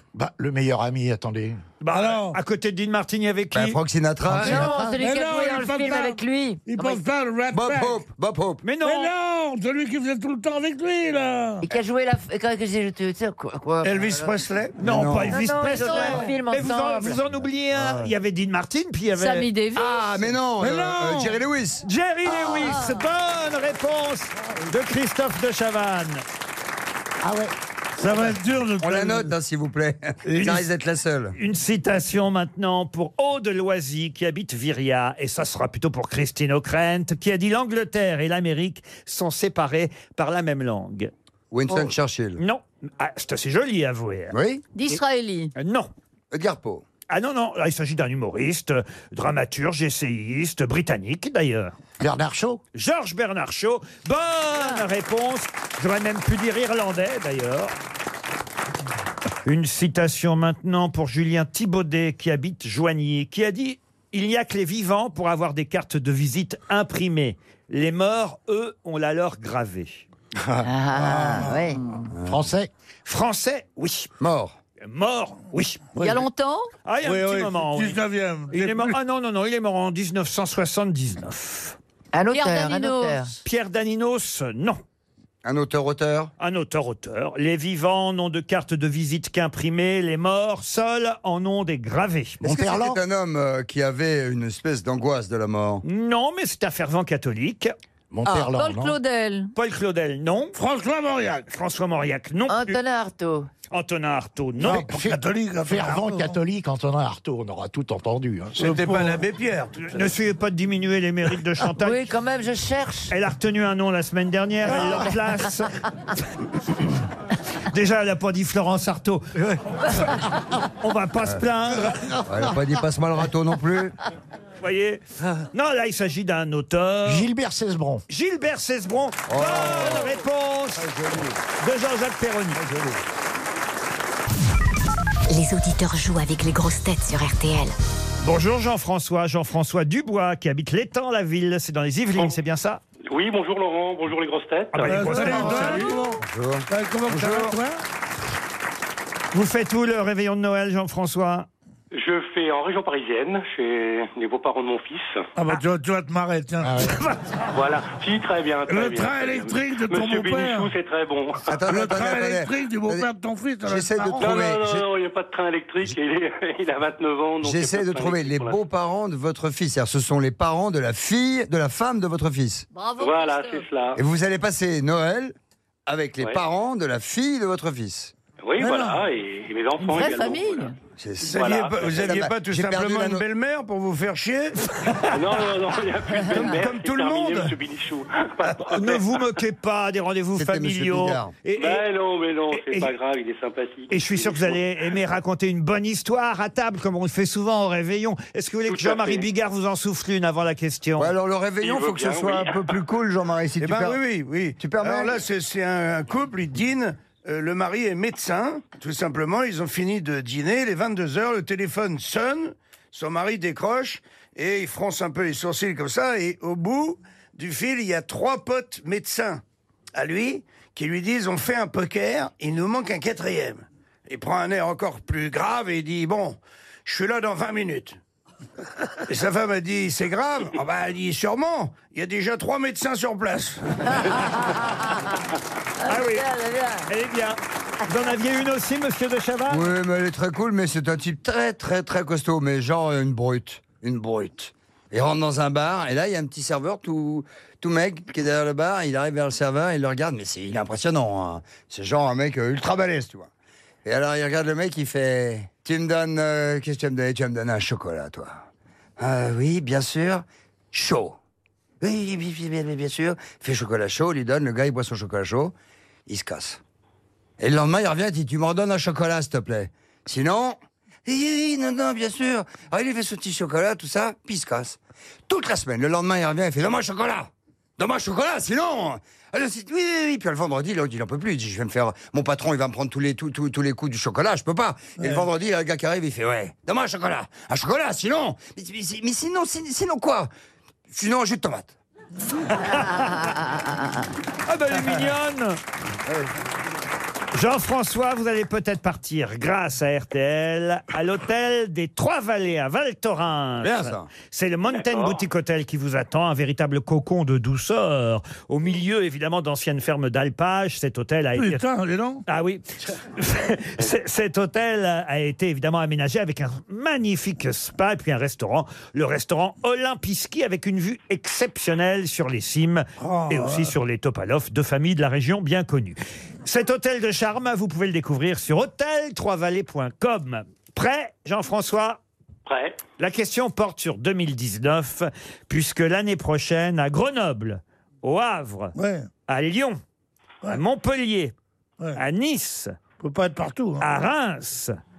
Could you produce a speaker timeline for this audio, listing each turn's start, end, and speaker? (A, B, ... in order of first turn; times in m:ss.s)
0:00.2-0:01.6 A
0:01.8-0:03.8 B
0:01.9-0:02.4 C
0:03.5-0:04.7 D
0:04.3-0:05.0 A
0:04.4-0:07.0 E
0:04.9-0:08.0 C
0:07.5-0:08.6 D
0:08.6-0:09.1 B
0:08.8-0:11.7 C
0:11.6-0:14.4 E
0:13.8-0:14.8 F
0:14.8-0:15.4 D
0:14.8-0:19.5 B
0:15.3-0:17.2 E
0:15.8-0:16.3 G
0:17.7-0:18.1 D
0:19.1-0:20.4 G
0:19.8-0:21.8 D
0:20.6-0:21.4 C
0:21.8-0:26.2 B
0:22.4-0:23.0 G
0:27.2-0:27.5 A
0:28.0-0:29.3 C
0:28.8-0:31.4 D
0:30.4-0:30.6 B
0:31.4-0:41.1 B
0:41.5-0:42.4 D
0:41.7-0:44.4 B
0:44.3-0:44.6 D
0:44.7-0:45.5 G
0:45.6-0:45.9 B
0:46.3-0:46.8 D
0:47.1-0:51.7 B
0:52.0-0:52.6 A
0:52.7-0:57.8 B
0:59.5-1:10.0 B
1:10.4-1:12.7 A
1:10.6-1:11.8 E
1:12.2-1:12.4 D
1:13.1-1:14.1 B
1:14.2-1:14.6 D
1:14.8-1:15.9 B
1:16.0-1:16.3 C
1:16.0-1:16.7 G
1:16.8-1:18.0 B
1:17.0-1:19.0 C
1:18.5-1:21.8 B
1:22.1-1:23.3 E
1:22.3-1:23.4 G
1:23.4-1:24.8 B
1:25.4-1:26.3 D
1:26.4-1:32.4 B
1:32.4-1:33.0 A
1:32.4-1:35.8 D
1:35.8-1:37.7 B
1:38.1-1:39.0 A
1:38.4-1:39.5 G
1:39.6-1:40.6 B
1:40.5-1:41.5 C
1:41.5-1:42.8 B
1:42.5-1:43.5 E
1:43.7-1:44.9 B
1:44.6-1:49.2 A
1:44.9-1:46.4 C
1:48.6-1:50.1 F
1:49.8-1:52.1 B
1:51.7-1:53.1 E
1:53.1-1:55.7 B
1:54.9-1:55.1 E
1:57.7-2:00.1 B
2:00.8-2:02.1 B
2:02.2-2:04.0 D
2:04.6-2:05.0 B
2:05.5-2:07.3 B
2:07.0-2:08.0 A
2:08.1-2:10.9 B
2:09.3-2:10.2 D
2:10.8-2:11.4 D
2:11.6-2:12.6 B
2:12.6-2:13.0 D
2:15.3-2:17.8 H
2:18.2-2:22.8 B
2:23.1-2:25.6 I
2:24.7-2:26.0 B
2:24.8-2:27.8 C
2:25.3-2:27.6 D
2:29.3-2:31.5 B
2:31.9-2:35.3 I
2:35.4-2:37.2 C
2:36.6-2:37.0 A
2:37.5-2:41.6 I
2:38.7-2:40.8 C
2:41.5-2:43.1 D
2:41.7-2:44.2 C
2:43.6-2:44.9 D
2:44.2-2:48.6 I
2:47.4-2:52.7 D
2:52.7-2:53.7 G
2:53.0-2:54.0 I
2:54.0-2:55.4 D
2:55.9-2:58.1 D
2:58.4-3:00.7 I
2:58.6-2:59.0 C
2:59.8-3:00.8 G
3:01.0-3:03.2 D
3:01.2-3:04.6 F
3:01.3-3:01.9 I
3:05.1-3:09.2 I
3:06.3-3:07.6 F
3:08.7-3:11.9 B
3:10.4-3:11.3 D
3:11.6-3:14.6 I
3:12.5-3:12.9 B
3:13.9-3:21.1 B
3:18.7-3:19.3 I
3:21.0-3:24.0 D
3:21.6-3:22.8 I
3:23.6-3:39.4 F
3:24.6-3:25.2 D
3:40.0-3:48.0 F
3:49.1-3:54.0 F
3:55.8-3:56.9 E
3:55.8-3:56.3 B
3:56.8-3:59.7 B
3:59.5-4:13.3 D
4:13.8-4:18.4 D
4:19.0-4:21.2 D
4:21.8-4:25.5 D
4:26.1-4:26.6 D
4:27.4-4:50.3 D
4:45.0-4:45.2 C
4:50.9-4:51.8 D
4:52.5-4:53.4 B
4:54.5-4:55.6 B
4:57.3-5:11.6 B
5:03.6-5:04.1 D
5:04.7-5:05.2 I
5:11.4-5:12.2 C
5:12.3-5:32.0 B
5:23.0-5:23.7 C
5:32.5-5:32.8 I
5:33.0-5:38.7 B
5:38.8-5:39.1 C
5:39.3-5:39.8 B
5:40.5-5:41.3 B
5:42.0-5:42.8 B
5:43.0-5:43.9 C
5:43.8-5:44.8 B